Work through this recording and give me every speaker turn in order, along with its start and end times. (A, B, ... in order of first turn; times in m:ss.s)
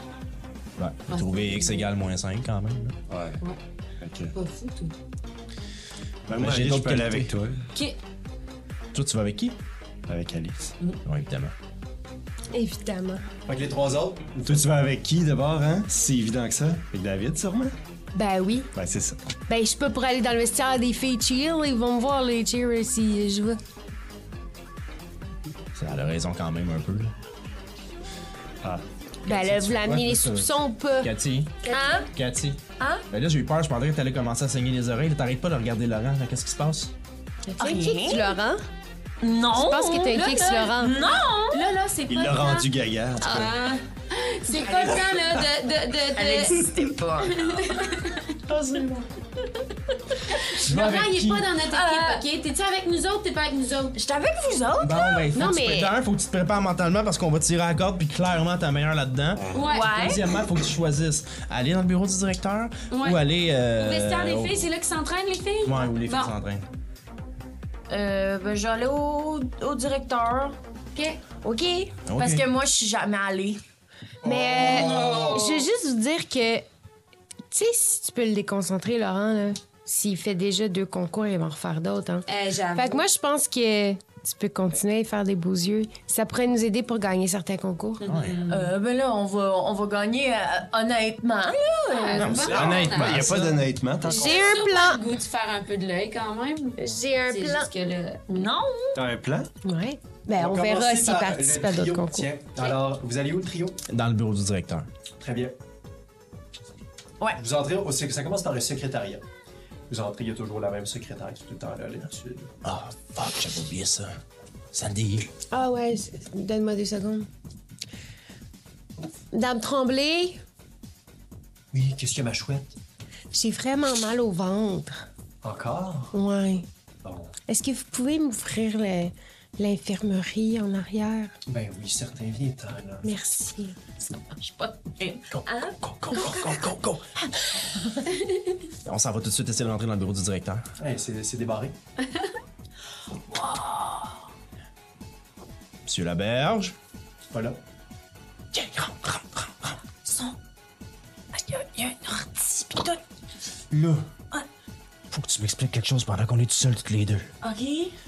0:00.8-0:03.0 A
0:01.1-0:01.9 B
0:03.1-0:03.4 C
0:04.0-0:04.3 C
0:04.3-0:04.9 B
0:06.3-0:07.6 C
0:06.4-0:07.3 A
0:08.9-0:09.6 A
0:10.1-0:10.7 C
0:11.0-0:11.5 A
0:12.5-0:13.2 D
0:13.5-0:14.7 E
0:14.4-0:17.8 C
0:18.1-0:18.7 D
0:18.7-0:19.2 C
0:19.5-0:23.6 D
0:25.8-0:27.1 A
0:28.6-0:29.6 C
0:29.2-0:31.1 D
0:29.6-0:36.9 A
0:31.6-0:32.1 D
0:31.7-0:32.1 F
0:32.8-0:33.0 F
0:37.5-0:38.6 D
0:37.6-0:38.4 F
0:39.2-0:41.6 F
0:39.5-0:41.0 D
0:40.2-0:42.7 B
0:42.1-0:43.6 C
0:43.2-0:48.4 B
0:44.6-0:45.0 F
0:46.2-0:47.9 F
0:48.5-0:49.1 D
0:50.5-0:54.0 B
0:50.7-0:51.4 A
0:51.7-0:52.2 F
0:54.0-0:55.3 F
0:54.8-1:04.6 A
0:55.3-0:55.9 D
0:59.5-1:00.1 B
0:59.7-1:00.2 F
1:02.9-1:03.2 B
1:03.8-1:06.4 B
1:05.6-1:06.7 A
1:07.9-1:10.6 F
1:10.9-1:11.2 B
1:11.4-1:13.6 F
1:12.1-1:12.4 A
1:14.2-1:16.7 D
1:15.1-1:15.7 B
1:17.5-1:28.0 D
1:22.3-1:23.0 B
1:28.0-1:28.7 B
1:28.0-1:28.5 A
1:28.5-1:32.5 F
1:31.9-1:33.3 B
1:32.2-1:33.7 A
1:32.4-1:34.4 C
1:34.0-1:35.0 D
1:34.1-1:38.2 B
1:36.8-1:37.7 D
1:38.3-1:39.0 F
1:39.0-1:39.5 C
1:39.6-1:42.3 D
1:40.4-1:43.8 E
1:43.9-1:44.9 A
1:45.2-1:45.6 E
1:47.4-1:49.2 E
1:49.9-1:52.5 E
1:52.6-1:54.2 A
1:54.7-1:55.3 A
1:55.5-1:57.3 D
1:59.3-2:00.4 D
2:01.7-2:02.8 E
2:03.3-2:05.0 D
2:05.4-2:06.2 E
2:06.1-2:06.7 D
2:07.0-2:07.4 E
2:07.5-2:11.3 D
2:11.5-2:13.1 E
2:13.0-2:13.8 D
2:14.6-2:16.6 F
2:15.3-2:17.0 A
2:18.8-2:20.6 A
2:20.8-2:21.8 E
2:23.3-2:24.1 F
2:25.9-2:26.8 A
2:27.3-2:27.6 E
2:28.5-2:29.8 A
2:30.0-2:30.4 F
2:31.3-2:33.0 F
2:33.7-2:34.0 A
2:35.1-2:37.3 A
2:37.4-2:38.0 F